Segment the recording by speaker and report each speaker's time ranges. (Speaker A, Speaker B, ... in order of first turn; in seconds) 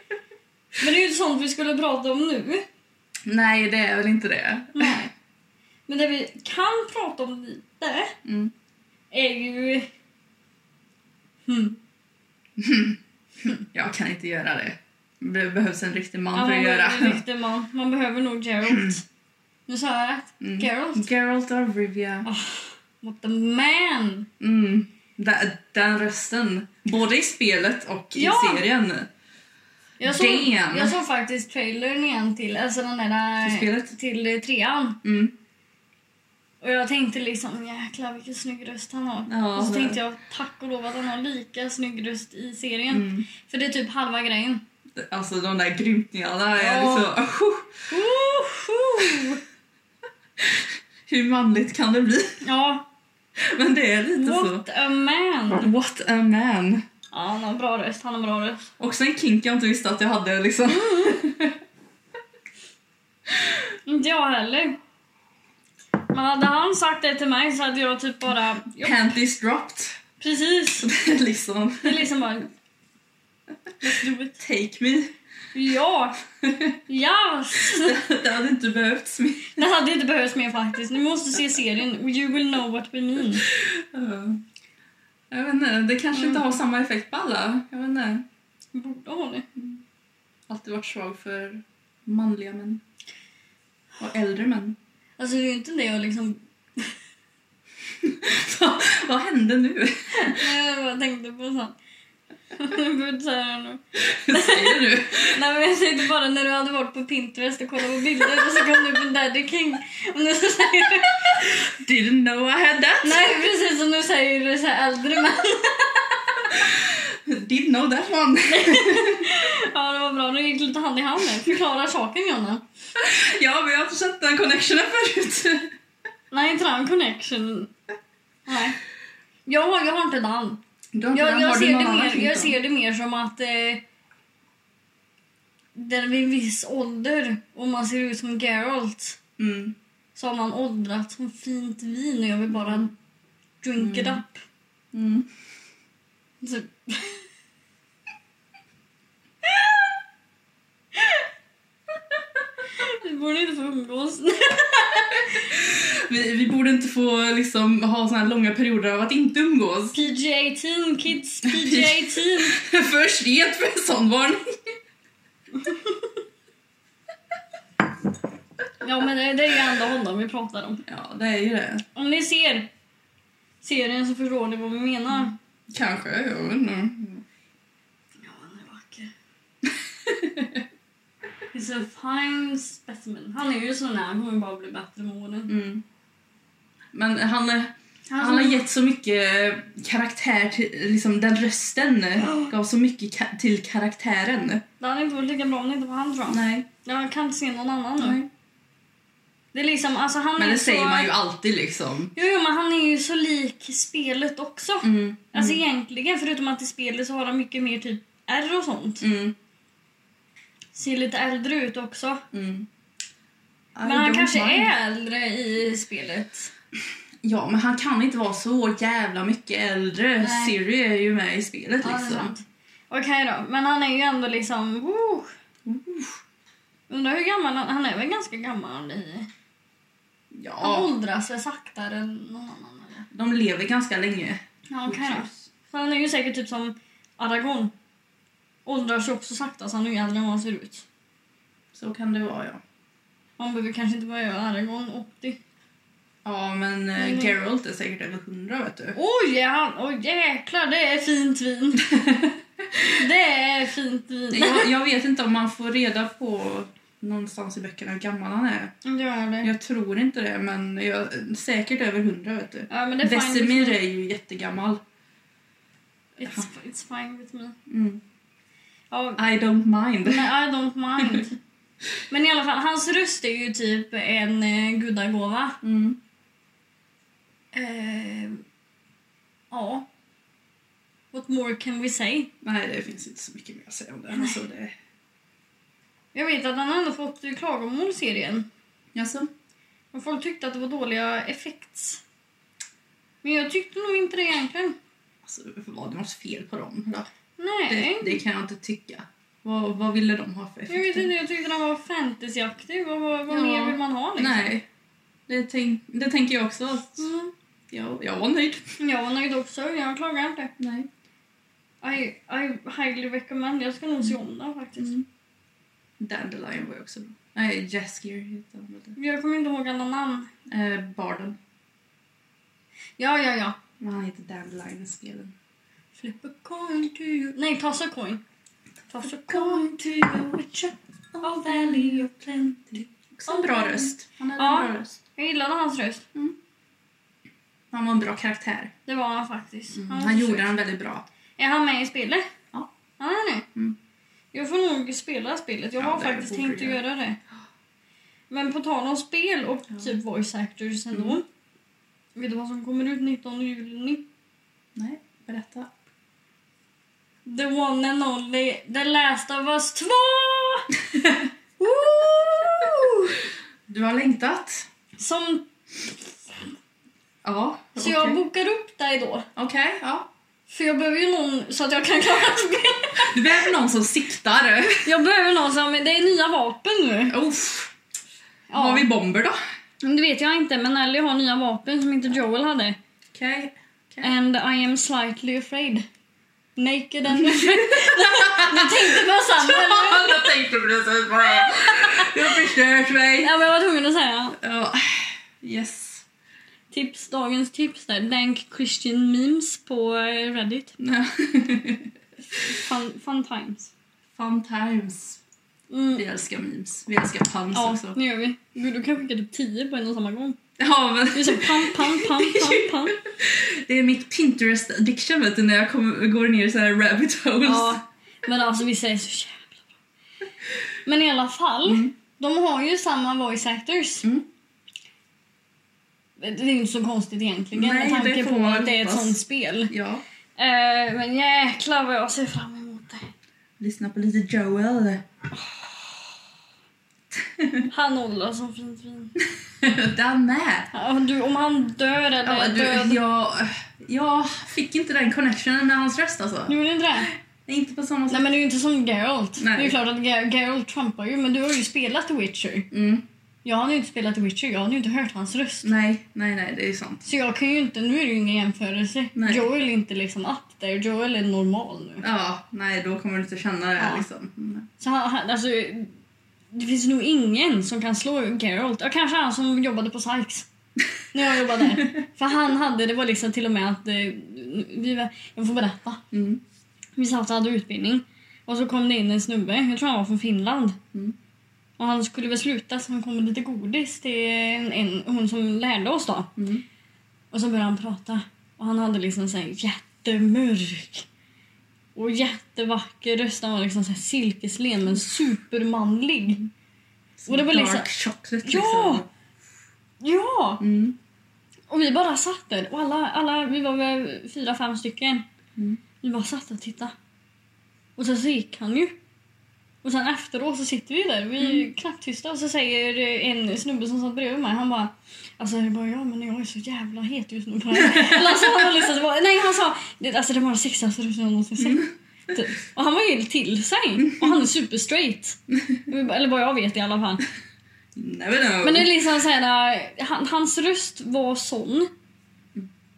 Speaker A: 0.8-2.6, 4.8-5.1, 5.9-8.2, 9.1-9.9, 11.5-11.8, 16.3-19.1, 19.7-21.1, 22.2-24.3, 28.1-28.6, 30.0-35.0, 36.6-44.6, 46.6-47.1, 47.9-49.4, 52.4-52.9, 54.1-55.7, 57.1-58.7, 60.7-61.2, 63.9-64.8, 66.1-69.2, 70.2-70.9, 71.8-72.5, 73.8-74.4, 75.5-76.2, 76.9-78.0, 79.5-83.5, 86.1-86.5, 88.7-89.5, 95.2-97.0, 100.3-101.8, 102.5-111.6, 113.0-116.7, 118.5-122.6, 126.3-127.7, 128.5-128.8, 129.5-130.6, 131.1-133.8, 135.8-139.2, 140.2-142.9, 143.6-144.4, 146.4-147.2, 149.4-149.9, 150.9-151.2, 152.8-155.5, 159.9-162.6, 165.6-166.2, 168.8-170.8, 171.9-172.7, 173.6-175.3, 178.2-179.1, 181.5-185.5, 188.1-188.7, 192.2-192.5, 194.8-198.2, 199.5-201.1, 202.2-209.1, 210.7-212.2, 213.8-216.5, 220.2-220.5, 221.8-225.3, 226.9-229.3, 230.6-233.1, 234.7-237.7, 238.7-240.8, 243.4-245.4, 247.0-247.3, 248.9-251.9, 252.8-254.7, 258.8-259.5, 262.7-263.8, 266.2-267.6, 268.9-269.2, 270.0-271.4, 272.1-275.6, 277.5-278.4, 279.5-279.9, 281.1-282.3, 284.1-284.4, 286.1-288.5, 289.9-292.0, 293.2-294.8, 297.4-298.2, 300.7-304.5, 307.0-307.3, 308.8-310.5, 311.8-315.0, 319.0-320.3, 323.0-323.6, 326.0-328.2, 328.9-330.1, 331.2-332.5, 333.3-336.1, 338.9-340.5, 341.4-342.3, 343.0-343.5, 344.3-347.2, 348.3-351.2, 352.1-354.1, 357.3-360.7, 361.6-363.2, 365.0-365.5, 367.8-369.3, 370.5-373.5, 374.8-377.1, 378.5-378.9, 379.8-382.8, 384.0-385.9, 386.6-390.4, 391.3-392.4, 393.2-394.4, 396.7-400.8, 402.3-403.7, 405.7-406.0, 407.5-410.4, 411.1-413.0, 417.4-419.6, 420.9-424.1, 426.2-429.7, 430.4-433.1, 435.4-436.1, 437.7-439.1, 440.7-443.0, 446.5-447.1, 448.1-452.7, 453.4-455.7, 457.1-462.1, 463.8-464.1, 464.8-465.9, 466.5-470.5, 471.1-476.0, 477.0-480.8, 481.8-486.3, 487.3-491.1, 491.9-496.4, 497.3-497.9, 498.4-499.0, 500.0-500.6, 501.7-505.3, 506.0-506.9, 508.0-508.9, 509.8-527.2, 528.6-531.9
Speaker B: 3.3-5.0, 8.2-8.5, 12.6-17.2, 18.7-19.0, 20.4-22.3, 24.4-29.1, 30.1-31.0, 33.4-33.9, 35.0-35.3, 39.3-40.0, 42.9-43.3, 45.0-47.7, 50.4-52.4, 53.4-54.6, 55.5-56.8, 58.8-61.6, 63.3-63.6, 68.8-70.0, 70.8-72.1, 74.4-75.1, 76.4-76.8, 77.6-79.6, 83.4-84.4, 85.3-88.2, 89.6-89.8, 90.5-92.8, 94.0-94.8, 98.0-100.5, 104.0-105.4, 111.7-113.2, 116.5-119.3, 123.0-125.7, 130.9-132.6, 139.4-139.8, 143.8-144.2, 144.9-145.3, 155.3-160.0, 161.4-164.7, 170.8-171.8, 175.7-177.2, 180.0-180.6, 185.5-185.8, 186.9-194.6, 196.3-196.7, 198.0-198.3, 200.4-202.1, 204.8-205.6, 209.0-209.3, 212.3-212.7, 213.8-214.7, 217.2-222.3, 225.7-226.2, 230.3-230.9, 233.1-235.5, 241.7-242.6, 246.2-249.0, 251.8-253.0, 254.3-258.7, 259.4-264.8, 266.2-266.5, 267.7-268.0, 269.2-270.3, 275.6-276.0, 282.4-284.7, 288.9-289.3, 295.2-297.1, 297.7-301.1, 303.3-304.6, 305.3-307.1, 307.7-308.6, 310.6-310.9, 314.8-315.1, 316.0-318.9, 320.5-321.4, 323.8-325.3, 329.0-335.0, 337.7-338.7, 339.7-341.1, 345.8-346.8, 350.9-351.2, 354.8-355.7, 360.9-361.3, 363.7-364.7, 367.2-368.2, 369.4-370.1, 373.0-374.9, 377.1-377.7, 378.5-379.4, 383.1-384.1, 387.1-393.3, 394.4-396.1, 400.8-401.9, 404.1-405.2, 406.0-408.0, 410.6-417.8, 421.6-421.9, 427.5-430.0, 433.6-435.1, 437.1-437.7, 439.6-440.7, 442.2-448.3, 449.4-449.8, 452.7-453.1, 455.6-457.1, 459.1-459.5, 462.0-464.7, 471.4-472.0, 476.1-476.4, 486.4-486.6, 497.2-499.1, 500.6-501.0, 511.4-511.6, 517.8-518.7, 521.6-521.9, 524.0-524.3, 527.9-528.9